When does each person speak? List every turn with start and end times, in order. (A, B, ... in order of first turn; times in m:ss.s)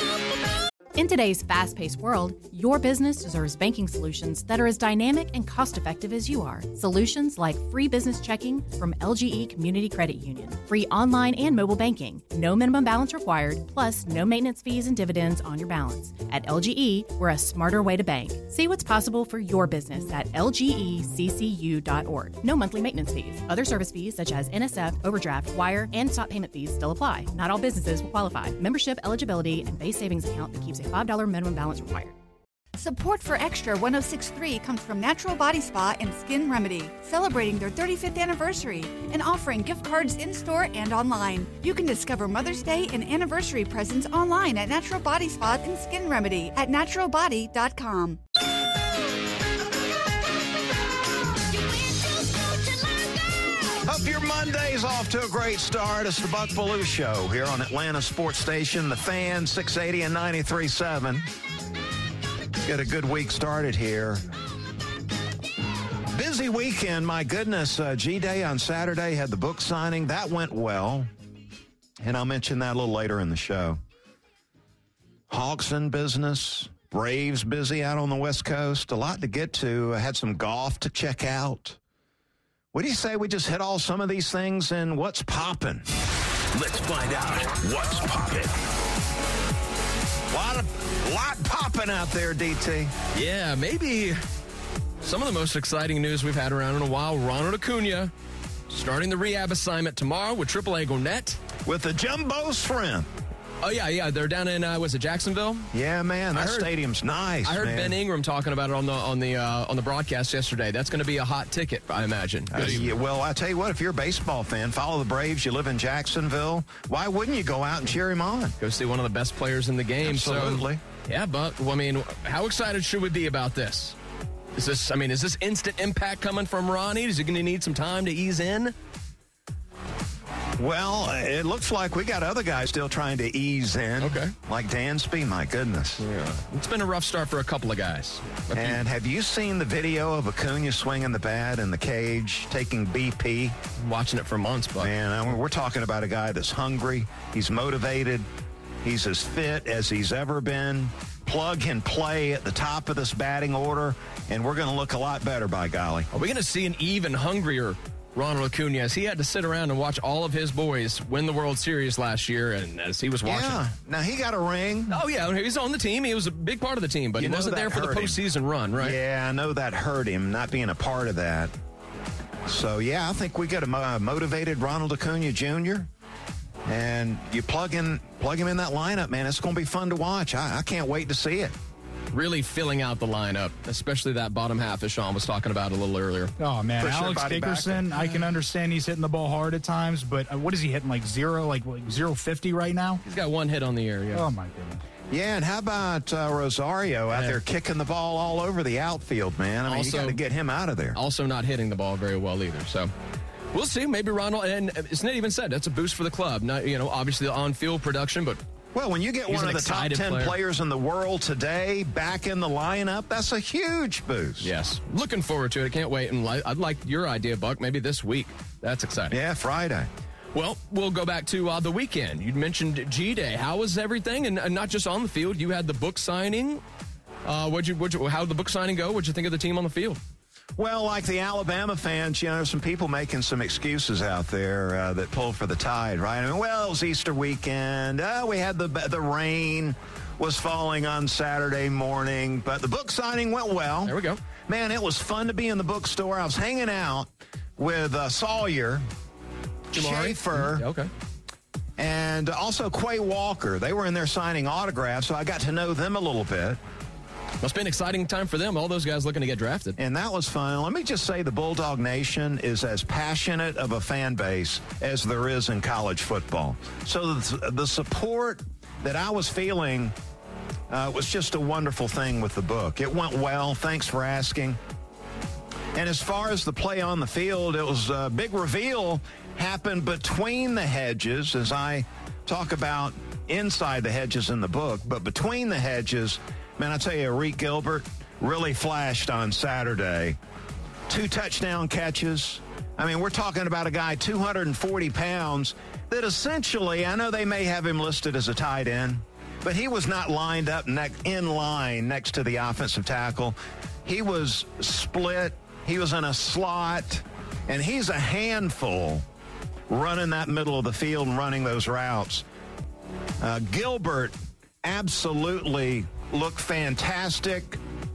0:01.0-0:32.2 A
0:32.8-0:48.2 B
0:53.8-1:01.3 C
1:02.6-1:04.2 C
1:06.1-1:11.1 C
1:12.0-1:13.8 C
1:15.3-1:21.8 C
1:22.7-1:25.9 C
1:26.5-1:28.6 D
1:30.3-1:32.9 C
1:33.1-1:34.2 E
1:35.0-1:38.1 E
1:38.7-1:41.4 E
1:41.7-1:43.1 C
1:43.6-1:45.7 E
1:45.7-1:48.0 C
1:46.3-1:46.7 E
1:47.4-1:52.9 E
1:52.5-1:58.6 C
1:58.6-2:04.0 E
2:00.0-2:00.8 C
2:04.6-2:08.7 E
2:10.6-2:16.0 C
2:14.0-2:14.3 E
2:16.0-2:18.8 E
2:18.5-2:23.6 C
2:23.8-2:24.9 E
2:24.8-2:28.3 C
2:28.8-2:36.1 C
2:36.1-2:43.6 E
2:43.2-2:45.0 C
2:44.9-2:49.0 E
2:47.2-2:48.2 C
2:48.8-2:51.5 C
2:52.5-2:55.9 C
2:56.6-3:01.6 C
3:02.1-3:06.3 E
3:06.4-3:13.0 F
3:06.8-3:07.9 C
3:13.0-3:14.3 E
3:14.1-3:14.8 F
3:15.1-3:21.0 C
3:17.1-3:17.4 E
3:19.7-3:20.2 E
3:21.0-3:22.9 E
3:23.5-3:28.4 E
3:28.7-3:34.5 C
3:29.3-3:30.4 E
3:34.4-3:39.2 E
3:39.1-3:39.9 C
3:40.3-3:46.6 E
3:47.2-3:50.0 E
3:50.6-4:08.9 C
4:03.8-4:04.2 E
4:09.7-4:10.6 C
4:09.7-4:10.9 E
4:11.8-4:16.6 C
4:17.4-4:19.8 E
4:19.8-4:30.0 C
4:30.7-4:34.6 C
4:35.7-4:50.2 C
4:50.9-5:09.0 C
5:09.7-5:12.3 C
5:13.2-5:17.6 C